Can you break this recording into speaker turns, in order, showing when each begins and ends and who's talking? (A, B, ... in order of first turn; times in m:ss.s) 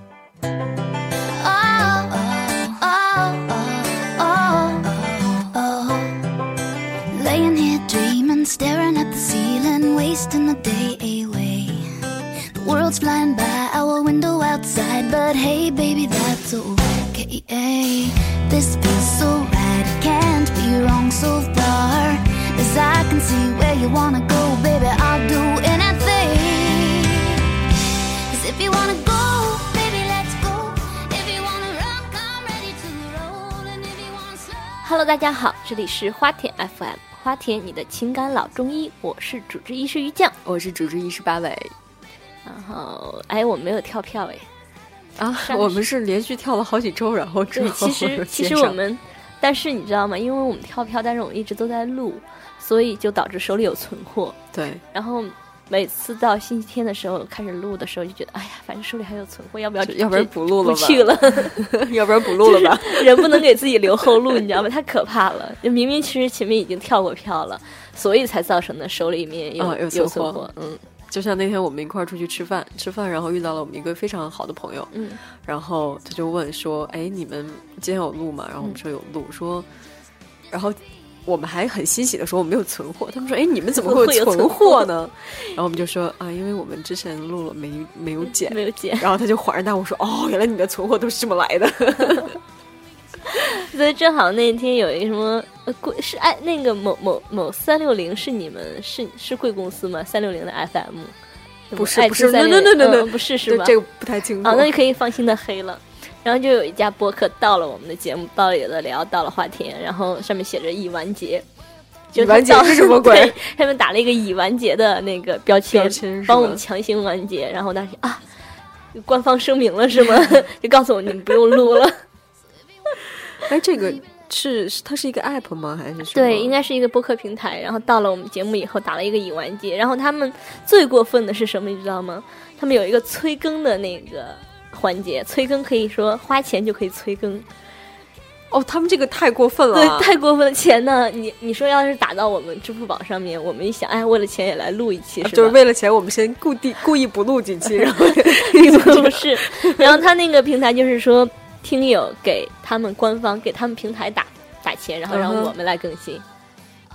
0:01.2-0:06.3 A
0:07.1-0:11.9 A
0:12.5-0:27.4 A
0:28.3-0:34.8 A
0:34.8-0:40.4 B
0:40.4-0:41.7 C
0:42.4-0:44.5 B
0:45.2-0:48.8 C
0:45.4-0:45.8 B
0:47.5-0:54.4 B
0:54.5-0:54.8 C
0:54.9-1:01.7 B
0:59.8-1:04.4 C
1:02.2-1:10.8 B
1:09.6-1:10.5 C
1:11.1-1:19.7 C
1:14.9-1:15.2 B
1:20.5-1:32.4 C
1:23.7-1:25.5 B
1:28.3-1:29.1 B
1:33.3-1:41.2 B
1:41.7-1:43.8 B
1:41.7-1:44.7 C
1:44.4-1:51.5 B
1:52.1-1:58.2 B
1:52.2-1:53.4 C
1:55.7-1:56.6 C
1:58.9-2:02.0 B
2:03.4-2:06.6 C
2:06.1-2:17.5 B
2:18.5-2:20.1 C
2:19.7-2:25.6 B
2:25.2-2:30.0 C
2:28.0-2:36.2 B
2:35.1-2:35.6 C